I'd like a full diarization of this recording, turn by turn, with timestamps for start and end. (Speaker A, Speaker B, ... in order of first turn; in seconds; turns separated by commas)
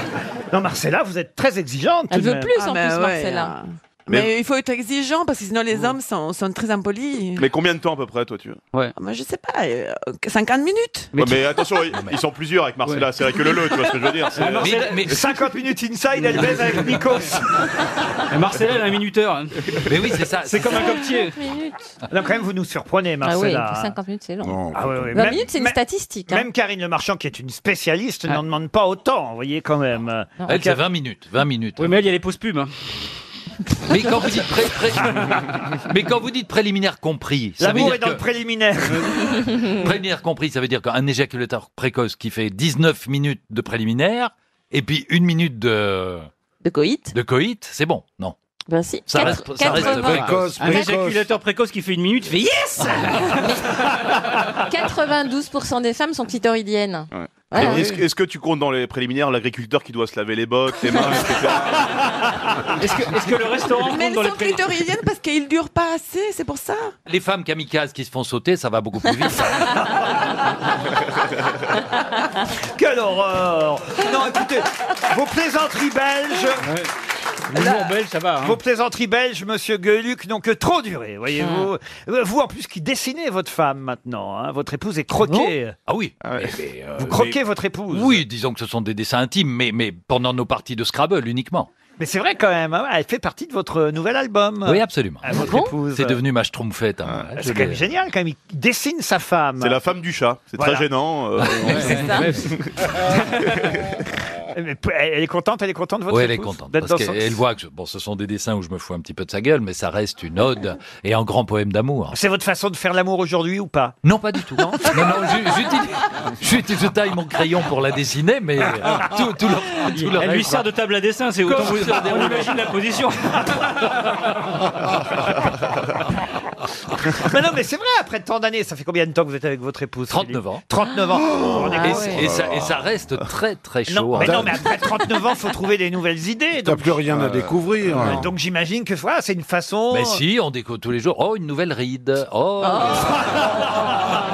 Speaker A: 0.5-2.5, Speaker B: 2.1-3.6, Speaker C: 2.6-7.5, Speaker D: 7.4-8.6, Speaker C: 9.0-11.1, Speaker E: 11.1-11.5, Speaker D: 11.2-14.7, Speaker E: 14.3-15.0, Speaker A: 14.4-17.6, Speaker F: 14.6-15.2, Speaker E: 18.3-19.6, Speaker F: 19.9-20.9, Speaker A: 20.5-20.9, Speaker E: 20.5-21.4, Speaker B: 21.1-21.7, Speaker A: 22.1-23.9, Speaker B: 23.2-26.5, Speaker G: 24.4-25.0, Speaker A: 24.7-30.8, Speaker F: 30.5-32.0, Speaker E: 31.8-32.7, Speaker F: 33.9-38.2, Speaker A: 37.6-39.3, Speaker F: 39.7-46.3, Speaker B: 46.6-47.1, Speaker F: 47.1-48.4, Speaker B: 48.7-50.2, Speaker F: 49.1-50.8, Speaker G: 49.7-51.3, Speaker E: 50.1-53.3, Speaker B: 53.2-53.8, Speaker B: 54.7-57.9, Speaker D: 57.1-61.8, Speaker B: 60.9-61.1, Speaker E: 62.8-64.6, Speaker C: 63.8-66.9, Speaker F: 67.1-69.7, Speaker A: 72.8-76.7, Speaker E: 76.6-76.9, Speaker E: 77.5-78.6, Speaker A: 77.5-85.8, Speaker B: 81.4-81.7, Speaker F: 85.9-87.4, Speaker A: 87.0-88.2, Speaker F: 87.9-91.7, Speaker A: 92.0-96.2, Speaker F: 94.7-97.8, Speaker B: 95.4-95.7, Speaker A: 97.4-99.8, Speaker D: 99.6-103.8, Speaker A: 100.6-100.9, Speaker E: 101.6-102.5, Speaker B: 101.7-102.4, Speaker A: 104.5-107.4, Speaker F: 106.1-112.2, Speaker A: 112.1-115.0, Speaker F: 114.0-120.7, Speaker E: 119.9-123.6, Speaker F: 121.5-122.5, Speaker A: 127.2-132.2, Speaker F: 130.1-130.6, Speaker B: 131.6-132.3, Speaker F: 131.8-134.6, Speaker A: 133.9-137.1, Speaker G: 134.2-134.6, Speaker G: 136.6-138.3, Speaker A: 138.0-140.2, Speaker F: 139.9-143.4, Speaker B: 142.6-143.2